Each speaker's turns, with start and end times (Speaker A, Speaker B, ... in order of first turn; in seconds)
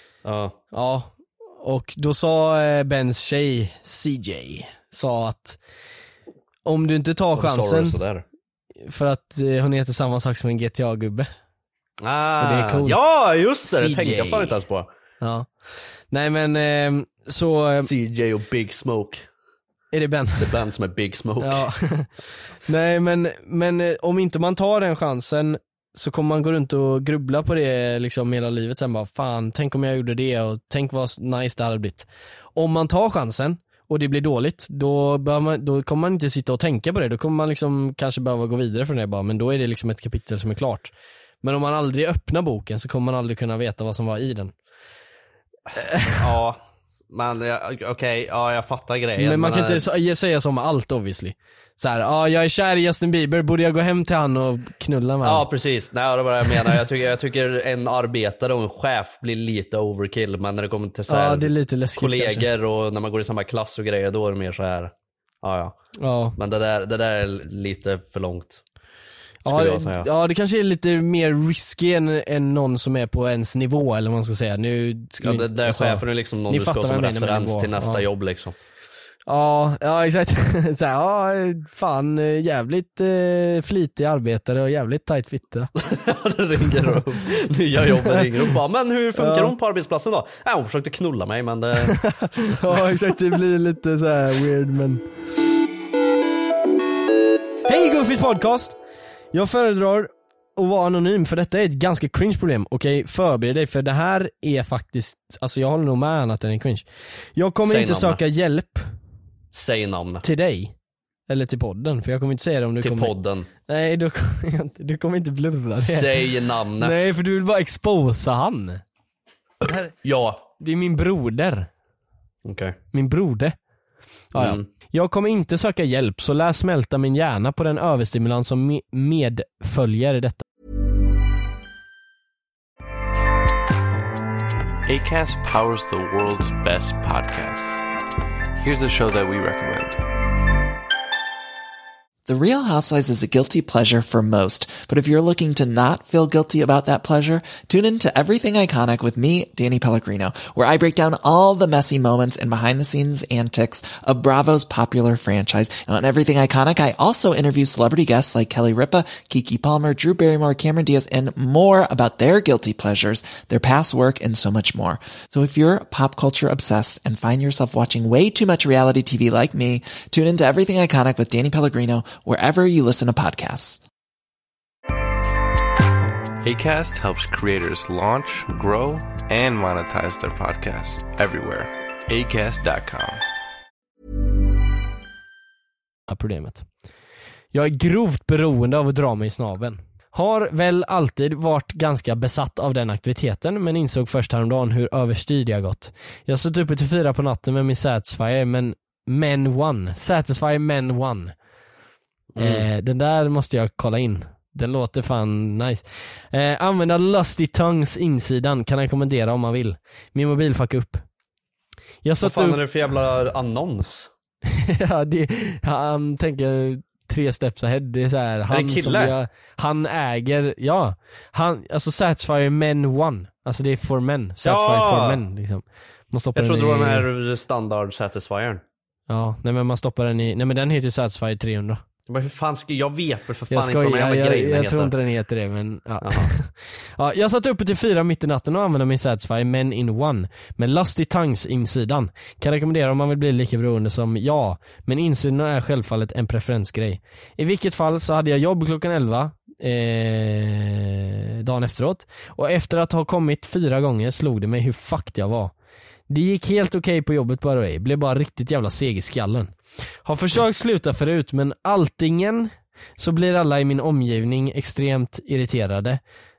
Speaker A: 0.2-0.6, 7.4-8.2, 12.0-14.9, 17.8-19.2, 20.4-21.7, 46.1-46.6, 47.1-49.8, 55.2-65.8, 66.4-68.6, 69.5-70.1, 75.2-78.5, 85.8-92.0, 107.6-108.2, 109.5-110.2, 112.8-113.5, 115.8-117.0, 120.0-120.4, 122.5-122.8, 124.3-124.7, 202.3-202.7, 212.2-214.1, 218.5-219.2, 224.4-225.2, 226.3-228.6, 232.1-234.9, 236.0-236.3
Speaker B: 0.7-5.6, 6.7-8.0, 8.8-11.3, 12.4-13.0, 13.7-14.6, 15.2-15.5, 16.1-17.9, 19.9-20.5, 21.4-22.1, 22.7-44.5, 45.8-46.1, 49.2-55.5, 61.1-62.5, 66.0-66.4, 69.5-78.0, 79.3-85.7, 89.2-89.5, 91.9-95.0, 97.7-98.8, 99.3-108.8, 110.2-110.7, 111.3-113.1, 113.7-118.8, 119.7-119.9, 120.6-121.7, 122.9-123.6, 124.3-130.4, 186.1-186.7, 187.5-201.3, 202.4-211.0, 212.0-212.6, 214.5-227.1, 229.1-231.8, 233.5-255.5, 256.1-266.0
Speaker C: 134.9-137.8, 138.6-140.0, 176.4-183.2
Speaker D: 142.3-173.8